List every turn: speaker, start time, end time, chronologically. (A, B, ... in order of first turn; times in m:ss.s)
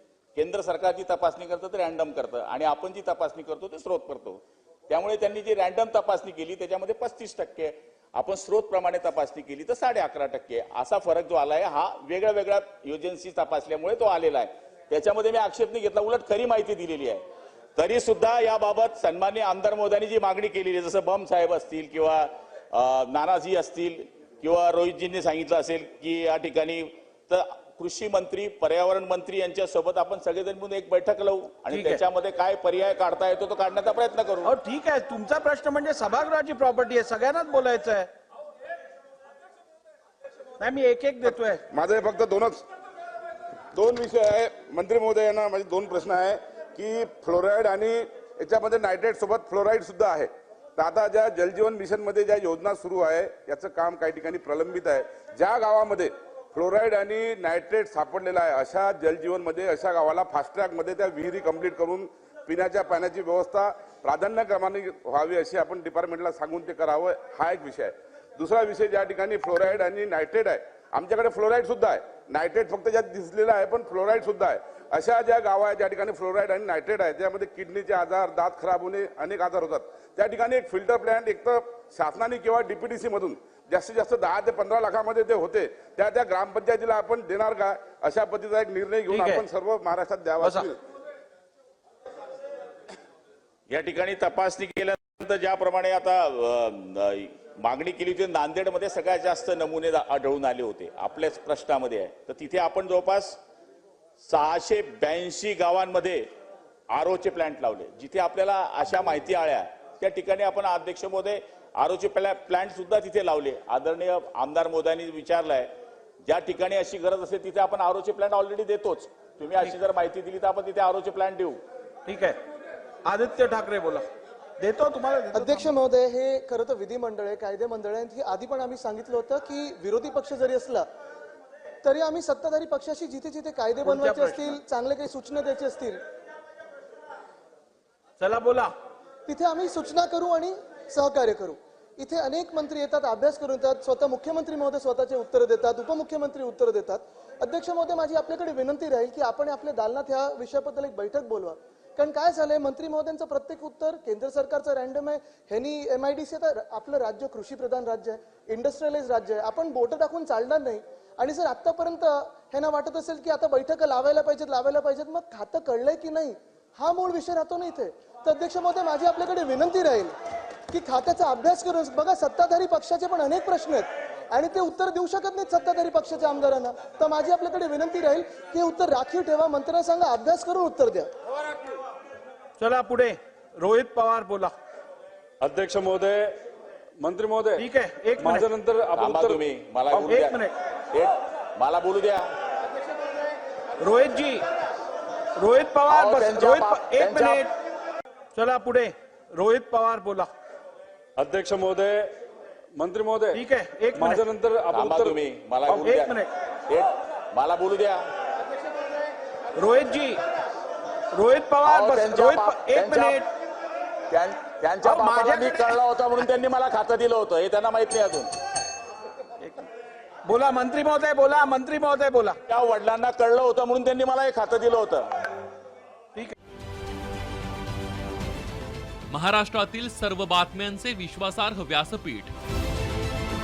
0:00.4-0:17.2 A
0:17.8-0:34.5 A
0:31.7-0:32.0 B
0:34.4-0:38.1 B
0:40.6-0:41.6 B
0:41.7-0:42.6 C
0:43.7-1:30.8 C
1:29.1-1:29.4 B
1:30.4-1:30.7 B
1:33.7-1:43.4 A
1:44.2-1:46.2 A
1:46.9-1:55.7 A
1:56.2-2:01.6 A
2:02.0-2:02.4 B
2:03.0-2:04.0 B
2:04.6-2:05.7 B
2:05.3-2:10.8 D
2:11.8-2:16.0 D
2:13.8-2:14.6 B
2:18.2-2:18.7 B
2:19.2-2:50.1 D
2:50.7-3:01.1 D
3:02.6-3:04.5 B
3:05.4-3:06.3 E
3:07.0-3:07.7 E
3:07.6-3:08.5 B
3:08.2-3:10.2 E
3:09.0-3:10.4 A
3:10.1-3:10.5 B
3:10.9-3:12.3 A
3:13.8-3:14.4 B
3:15.4-3:17.5 B
3:15.9-3:17.4 A
3:18.3-3:20.3 B
3:21.2-3:22.1 E
3:22.7-3:25.9 E
3:23.3-3:24.2 B
3:24.7-3:28.0 A
3:25.8-3:26.3 B
3:29.6-3:30.2 B
3:31.1-3:33.3 B
3:31.6-3:33.2 A
3:34.1-3:38.3 A
3:34.8-3:35.8 B
3:40.3-3:42.4 B
3:42.5-3:45.0 A
3:49.1-3:52.3 F